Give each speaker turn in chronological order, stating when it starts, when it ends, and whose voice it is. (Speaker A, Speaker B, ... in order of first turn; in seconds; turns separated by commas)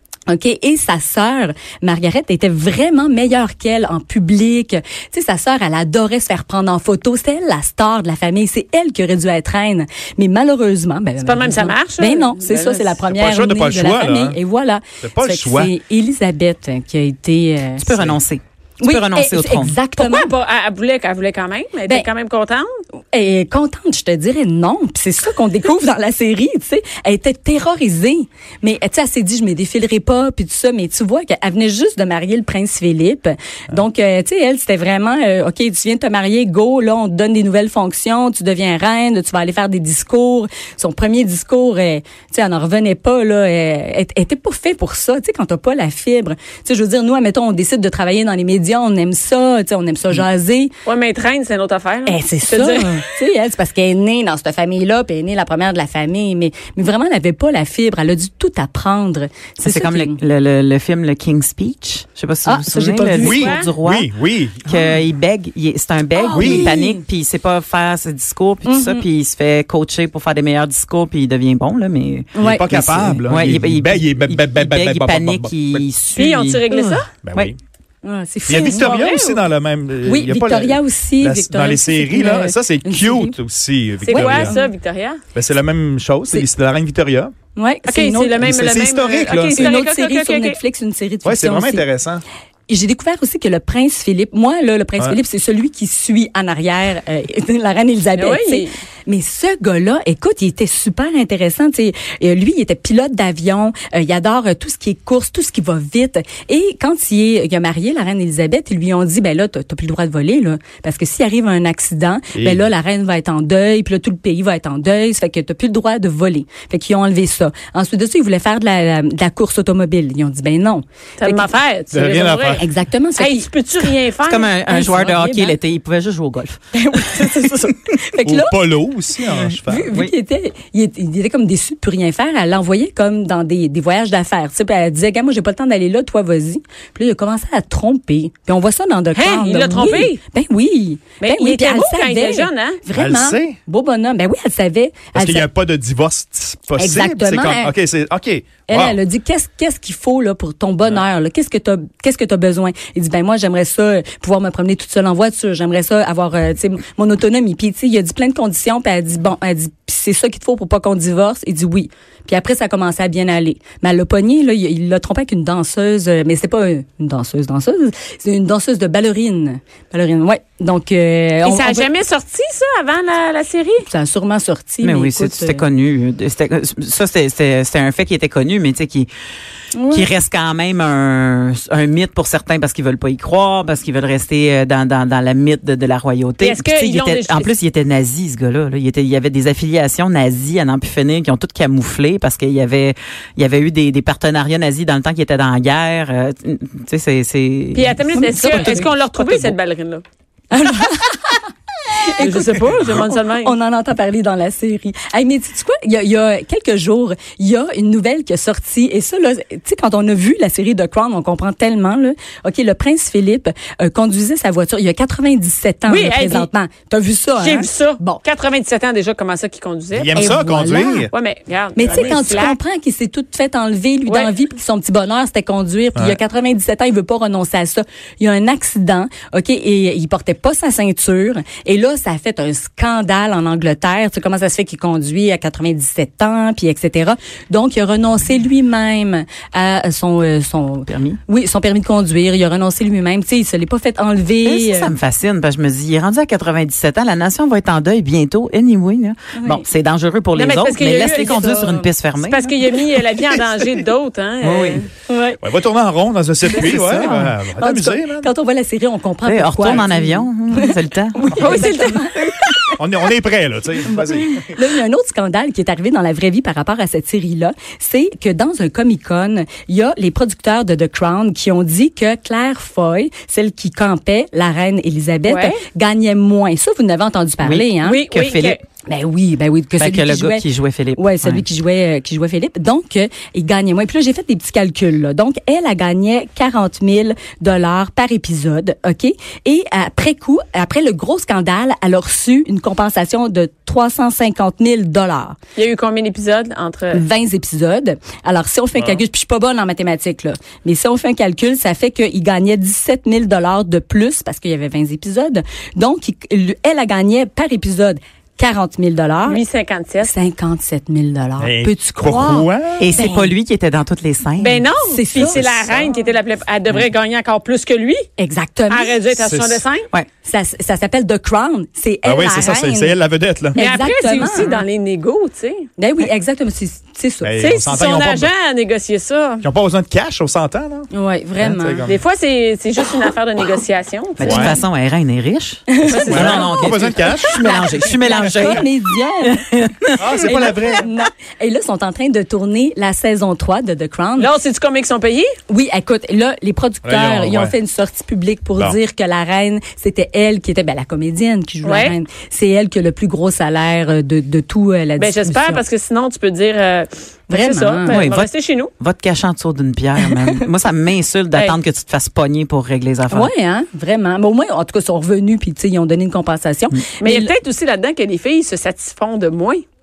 Speaker A: 0.3-17.9, Speaker B: 11.2-13.0, Speaker C: 13.0-14.4, Speaker C: 15.0-15.7, Speaker D: 17.8-19.8, Speaker C: 17.9-18.2, Speaker A: 18.8-20.3, Speaker B: 19.9-22.7, Speaker A: 23.1-50.7, Speaker B: 50.9-53.0, Speaker A: 52.0-60.2, Speaker D: 59.6-64.1, Speaker A: 62.4-63.6, Speaker C: 63.2-64.8, Speaker B: 63.3-63.7, Speaker D: 64.6-76.6, Speaker A: 66.1-67.0, Speaker C: 66.3-66.7, Speaker A: 68.6-69.1, Speaker A: 72.3-72.8, Speaker C: 72.4-75.9, Speaker B: 76.1-77.1, Speaker A: 76.7-77.0, Speaker C: 77.2-77.6, Speaker A: 78.0-78.8, Speaker C: 78.5-84.5, Speaker B: 78.5-79.5, Speaker A: 80.0-83.4, Speaker B: 84.0-85.2, Speaker A: 84.1-84.7, Speaker C: 85.3-87.3, Speaker A: 87.5-88.4, Speaker B: 87.9-90.6, Speaker C: 88.4-89.7, Speaker A: 89.5-91.9, Speaker C: 91.2-92.2, Speaker A: 92.7-121.5, Speaker B: 98.2-98.7, Speaker C: 112.3-112.7, Speaker B: 121.2-122.6, Speaker C: 121.9-122.7, Speaker A: 122.6-123.5, Speaker B: 123.2-124.6, Speaker D: 124.2-126.6, Speaker A: 124.6-125.6, Speaker A: 126.7-128.7, Speaker C: 128.2-130.0, Speaker A: 129.6-145.5, Speaker B: 139.1-140.2, Speaker B: 141.2-142.8, Speaker C: 142.9-143.6, Speaker C: 145.1-149.0, Speaker A: 146.8-147.8, Speaker A: 148.7-171.9, Speaker B: 171.4-173.8, Speaker A: 173.8-175.7, Speaker D: 174.8-179.1, Speaker A: 179.7-180.1, Speaker D: 179.9-198.0, Speaker B: 186.4-187.5, Speaker B: 197.7-200.0, Speaker A: 198.1-199.5, Speaker A: 200.5-201.4, Speaker A: 202.0-218.2, Speaker B: 202.2-203.5, Speaker C: 202.7-202.9, Speaker B: 215.9-216.5, Speaker B: 217.4-220.3, Speaker C: 219.9-221.1, Speaker A: 220.1-221.1, Speaker B: 221.1-222.6, Speaker A: 221.8-244.9, Speaker B: 224.1-224.3, Speaker D: 240.9-241.2, Speaker D: 244.4-252.5, Speaker A: 249.4-249.7, Speaker B: 250.3-251.7, Speaker A: 250.9-251.9, Speaker B: 252.2-254.9, Speaker D: 254.4-254.8, Speaker A: 255.1-255.4, Speaker C: 255.4-258.3, Speaker A: 256.4-262.8, Speaker D: 259.2-261.2, Speaker B: 261.4-262.1, Speaker C: 262.8-264.5, Speaker A: 263.8-278.0, Speaker B: 275.2-275.6, Speaker D: 277.4-278.5, Speaker B: 277.8-278.6, Speaker A: 278.9-295.4, Speaker D: 279.8-281.4, Speaker B: 295.6-297.0, Speaker A: 296.9-309.4, Speaker C: 298.7-299.0, Speaker B: 309.2-310.1, Speaker A: 310.0-313.3, Speaker C: 311.4-312.9, Speaker D: 312.8-314.7, Speaker B: 314.4-318.1, Speaker A: 314.8-316.0, Speaker C: 315.1-315.9, Speaker A: 318.2-319.0, Speaker B: 318.7-319.9, Speaker C: 319.1-319.6, Speaker A: 320.2-323.0, Speaker C: 322.0-323.6, Speaker A: 323.5-324.6, Speaker B: 323.6-325.6, Speaker A: 325.8-327.4, Speaker C: 327.2-328.3, Speaker B: 327.4-329.4, Speaker C: 329.4-332.0, Speaker A: 330.9-331.9, Speaker B: 331.9-334.6, Speaker D: 334.2-338.7, Speaker C: 334.2-334.6, Speaker A: 335.7-339.4, Speaker B: 335.9-336.8, Speaker C: 336.0-337.5, Speaker C: 338.1-338.5, Speaker D: 339.2-340.1, Speaker C: 340.0-340.9, Speaker A: 340.2-344.3, Speaker B: 344.2-345.3, Speaker A: 345.5-355.6, Speaker C: 346.8-347.6, Speaker B: 351.6-351.9, Speaker B: 355.0-358.7, Speaker A: 357.3-358.0, Speaker D: 357.9-363.3, Speaker A: 360.0-360.3, Speaker A: 363.1-367.3, Speaker B: 367.0-369.6